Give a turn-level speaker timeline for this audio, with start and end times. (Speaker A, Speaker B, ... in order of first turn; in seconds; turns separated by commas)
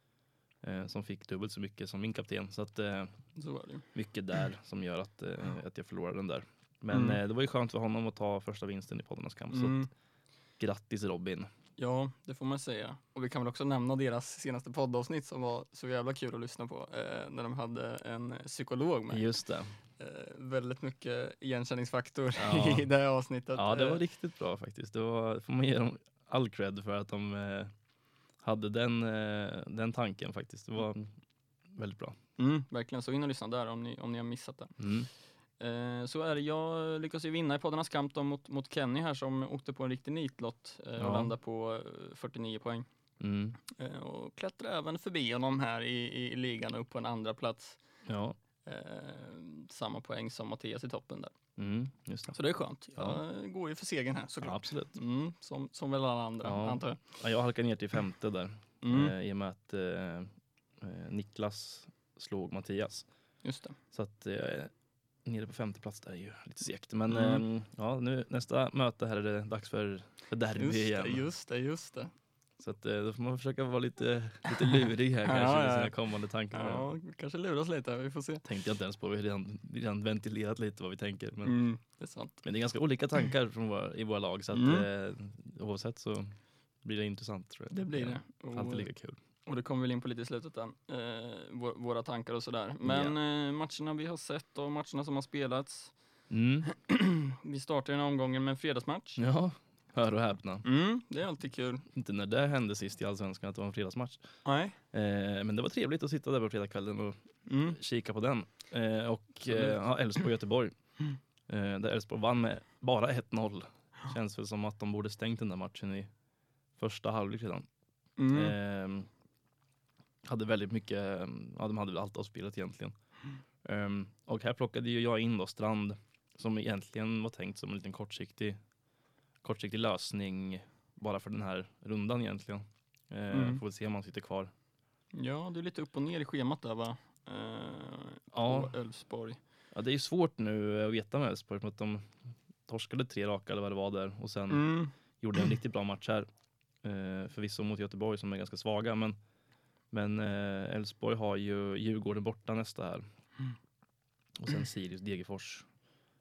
Speaker A: 0.6-3.1, Speaker B: 3.4-3.9, Speaker A: 3.9-9.9, Speaker B: 6.9-7.2, Speaker B: 9.5-9.9, Speaker A: 10.6-11.5, Speaker B: 11.8-19.3, Speaker A: 19.1-19.7, Speaker B: 20.0-24.0, Speaker A: 22.4-22.9, Speaker A: 23.6-27.7, Speaker A: 28.4-31.1, Speaker A: 31.7-32.2, Speaker B: 32.4-34.7, Speaker A: 34.8-35.1, Speaker B: 35.6-42.9, Speaker A: 41.0-41.3, Speaker A: 43.2-43.6, Speaker B: 43.7-47.8, Speaker A: 48.1-48.4, Speaker B: 48.6-51.4, Speaker A: 51.6-52.4, Speaker B: 52.3-57.0, Speaker A: 53.0-53.2, Speaker A: 54.4-55.0, Speaker A: 56.4-63.1, Speaker B: 58.8-59.2, Speaker B: 63.4-63.8, Speaker A: 63.9-64.7, Speaker A: 65.2-71.2, Speaker B: 67.1-67.4, Speaker B: 70.6-72.1, Speaker A: 72.6-76.9, Speaker B: 74.6-76.0, Speaker B: 76.5-78.5, Speaker A: 78.4-81.6, Speaker B: 81.4-82.4, Speaker A: 82.4-89.2, Speaker B: 84.5-84.9, Speaker B: 87.7-88.9, Speaker B: 89.5-95.9, Speaker A: 92.8-93.2, Speaker A: 96.3-96.7, Speaker B: 96.7-99.2, Speaker A: 99.2-100.7, Speaker B: 100.6-101.9, Speaker A: 101.9-104.3, Speaker B: 104.5-104.8, Speaker A: 104.9-110.7, Speaker B: 107.5-107.8, Speaker B: 109.5-109.8, Speaker A: 111.5-116.1, Speaker A: 116.8-117.7, Speaker B: 118.2-118.5, Speaker A: 118.3-119.1, Speaker A: 120.3-123.0, Speaker A: 123.6-128.6, Speaker A: 129.4-134.5, Speaker B: 133.3-133.6, Speaker B: 135.1-139.4, Speaker A: 138.3-138.7, Speaker A: 139.7-142.1, Speaker A: 142.7-144.7, Speaker B: 144.5-144.9, Speaker A: 145.2-146.3, Speaker A: 146.8-149.2, Speaker A: 149.9-153.1, Speaker A: 154.4-155.7